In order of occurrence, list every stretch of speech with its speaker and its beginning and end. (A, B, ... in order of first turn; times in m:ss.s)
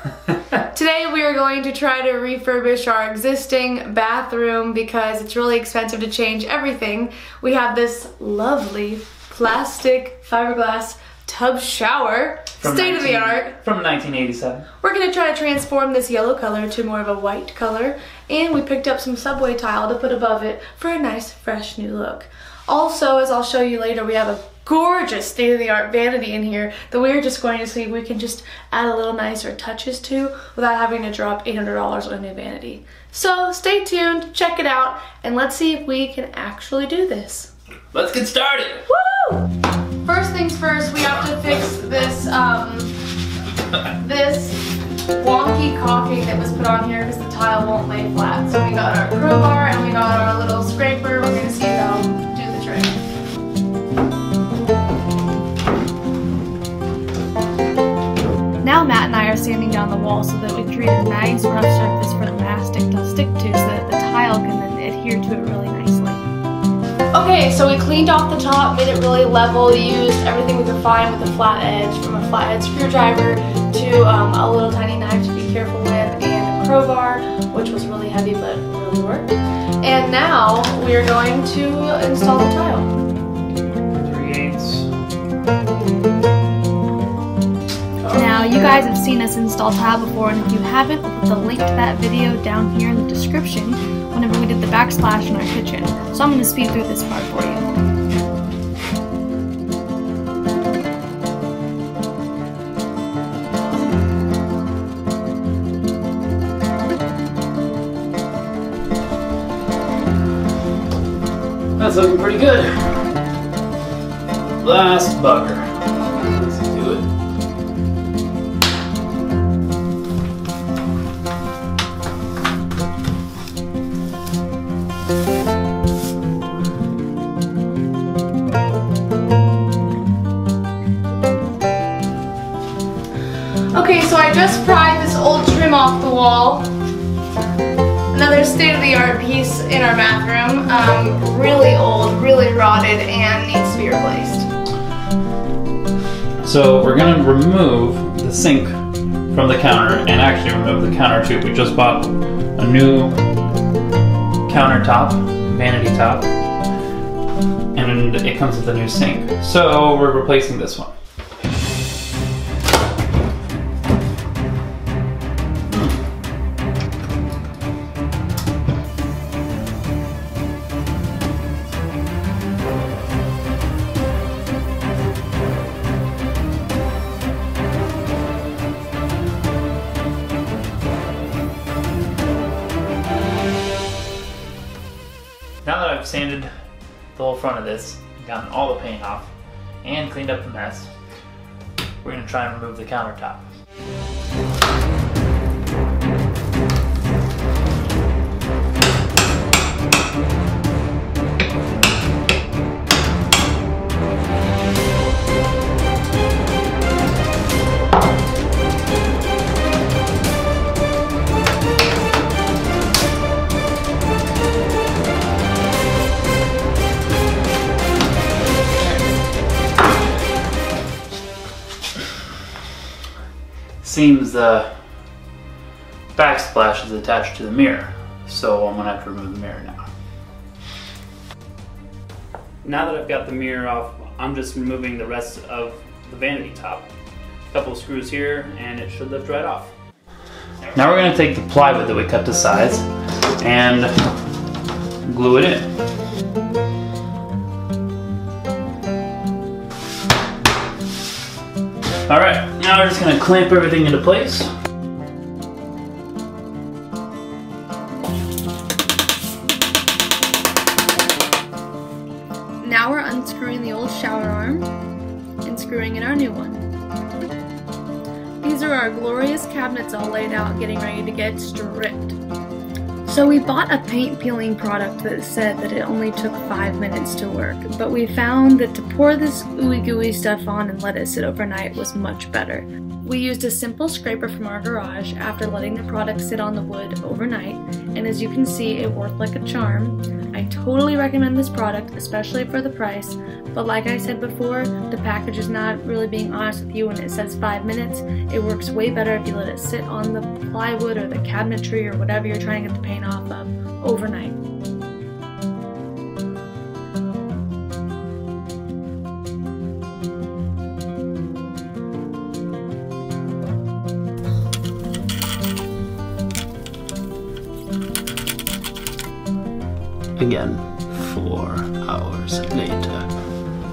0:00.6-0:13.6 A
0:12.6-0:14.7 B
0:14.8-0:37.5 A
0:37.9-0:38.8 B
0:38.9-0:39.5 A
0:40.0-0:43.0 A
0:43.9-0:53.0 A
0:58.6-1:06.2 A
1:07.1-1:22.9 A
1:24.0-1:24.9 B
1:28.0-1:28.6 B
1:28.1-1:37.7 A
1:51.8-1:53.0 B
1:54.6-1:55.6 B
1:56.3-1:57.1 B
2:13.7-2:16.7 A
2:18.1-2:24.5 A
2:26.4-2:28.7 B
2:29.3-2:33.2 B
2:34.5-2:36.3 B
2:37.8-2:40.9 B
3:05.6-3:06.5 B
3:07.2-3:09.3 B
3:09.8-3:10.9 B
3:12.0-3:13.4 B
3:43.8-3:44.7 B
3:46.2-3:49.9 B
3:52.6-3:56.9 B
3:57.5-3:59.7 B
4:00.7-4:02.9 B
4:03.4-4:03.9 B
4:05.0-4:05.7 B
4:12.1-4:14.5 B
4:22.6-4:24.7 A
4:25.4-4:26.7 A
4:28.4-4:32.2 A
4:33.0-5:04.4 A
5:20.2-5:23.1 B